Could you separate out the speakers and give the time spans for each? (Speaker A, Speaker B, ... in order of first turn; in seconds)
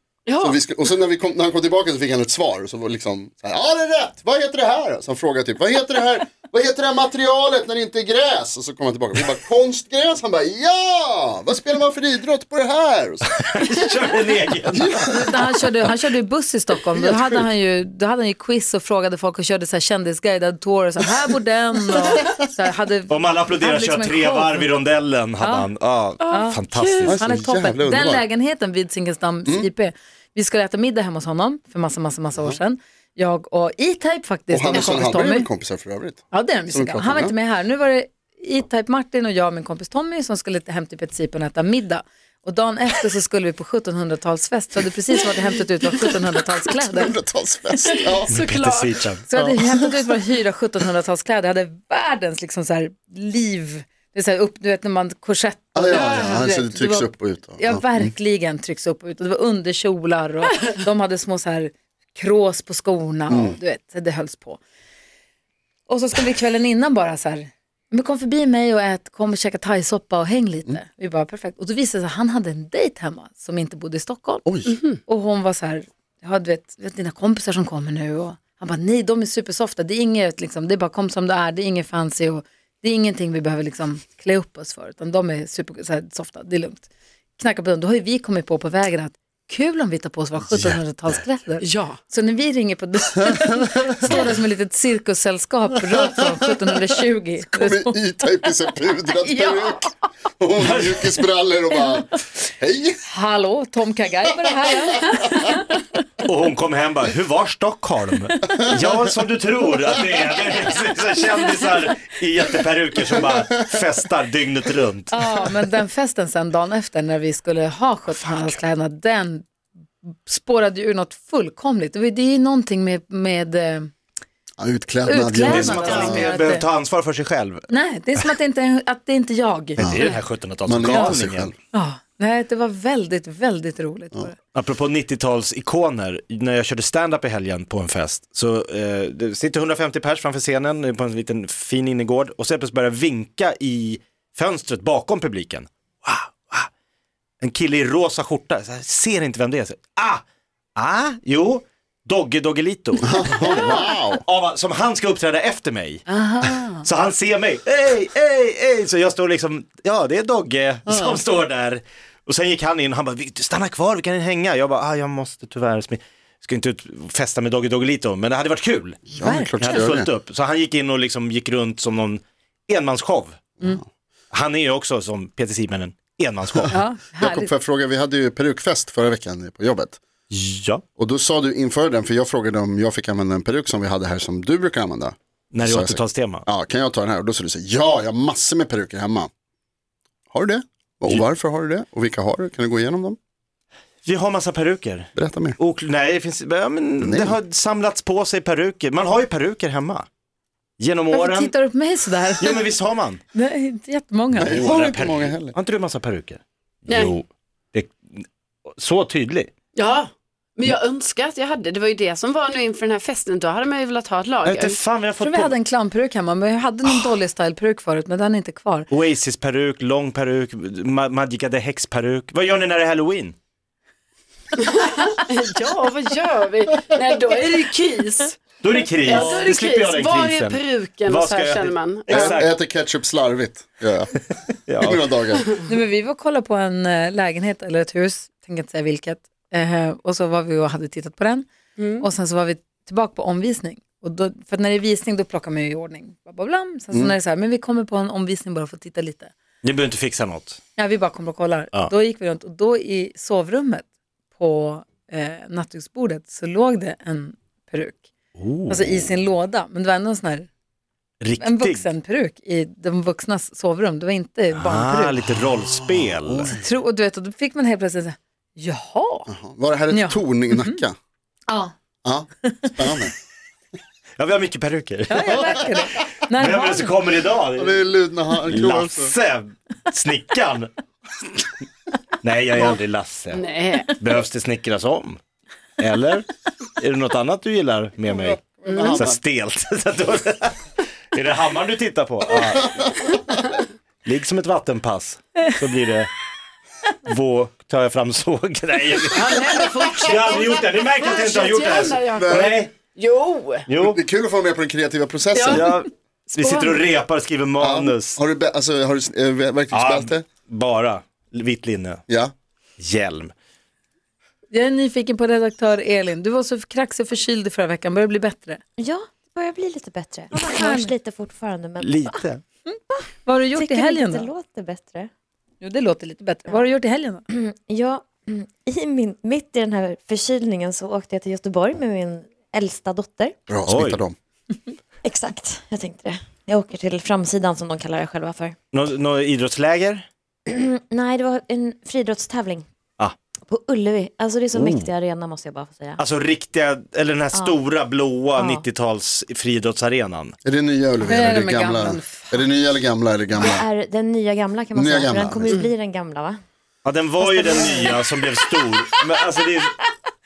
Speaker A: 0.4-13.3, 14.7-15.4, 16.9-17.4, 27.0-28.2, 34.5-37.3, 46.7-48.4, 55.7-58.1, 63.3-63.6, 74.5-74.7, 90.5-90.8, 93.3-94.3, 97.5-99.8, 100.4-103.0, 124.6-126.3, 129.8-130.1, 130.7-131.5, 153.0-154.2, 160.9-161.2, 169.1-170.1, 177.2-180.0, 181.0-189.3, 190.3-193.2, 195.2-195.6, 197.0-197.4, 204.3-205.6, 232.1-234.3, 234.8-235.5, 266.2-266.6, 269.3-270.9, 272.0-273.1, 275.3-275.8, 277.5-279.1, 288.4-289.1, 302.2-302.6, 303.8-305.7, 307.6-310.2, 312.1-312.3, 333.5-334.1, 350.4-353.6, 354.7-355.6
Speaker B: 13.3-15.1, 23.1-27.2, 48.3-49.5, 100.6-101.1, 106.2-115.2, 125.4-127.7, 129.8-131.5, 134.5-146.7, 147.4-150.2, 150.8-156.1, 156.8-173.4, 174.3-176.8, 180.3-180.8, 185.5-186.4, 194.0-200.1, 200.8-201.5, 202.4-203.2, 204.4-209.5, 214.4-215.6, 218.9-223.3, 228.6-232.5, 234.7-235.0, 249.6-250.6, 258.4-259.0, 261.2-261.8, 264.5-266.5, 274.2-277.8, 278.4-280.7, 282.2-285.2, 285.8-286.2, 286.8-293.0, 294.1-296.1, 297.1-299.3, 299.9-302.7, 303.7-304.0, 305.4-308.2, 309.7-312.0, 312.8-313.3, 321.8-322.4, 333.7-334.0, 338.7-340.1, 344.5-344.9, 346.0-350.3, 356.8-359.7
Speaker C: 15.1-24.7, 25.4-25.7, 26.3-26.6, 27.1-35.5, 36.3-47.2, 49.3-64.6, 65.9-74.5, 75.0-98.0, 99.2-99.9, 103.0-105.6, 115.1-119.5, 120.2-123.9, 125.0-126.7, 127.7-130.2, 131.7-134.4, 156.1-156.8, 169.2-169.8, 176.7-177.5, 201.1-202.7, 203.3-204.7, 215.2-218.9, 235.6-241.5, 242.0-249.3, 250.8-258.1, 258.7-260.5, 261.4-265.2, 266.6-269.3, 269.9-270.8, 272.4-273.0, 275.1-276.9, 314.5-318.6, 320.3-320.9, 322.7-324.3, 325.6-327.2, 351.0-352.5, 357.5-357.9
Speaker D: 26.2-27.0, 48.4-48.8, 91.6-92.0, 209.7-214.7, 224.6-228.4, 229.1-232.1, 241.8-242.1, 283.4-283.9, 299.2-300.4, 301.2-302.2, 302.9-303.6
Speaker E: 318.8-322.2, 323.5-325.1, 327.3-333.4, 335.0-338.6, 340.5-342.7, 343.4-346.0, 347.3-347.6, 348.3-348.6, 353.4-356.4, 357.2-357.9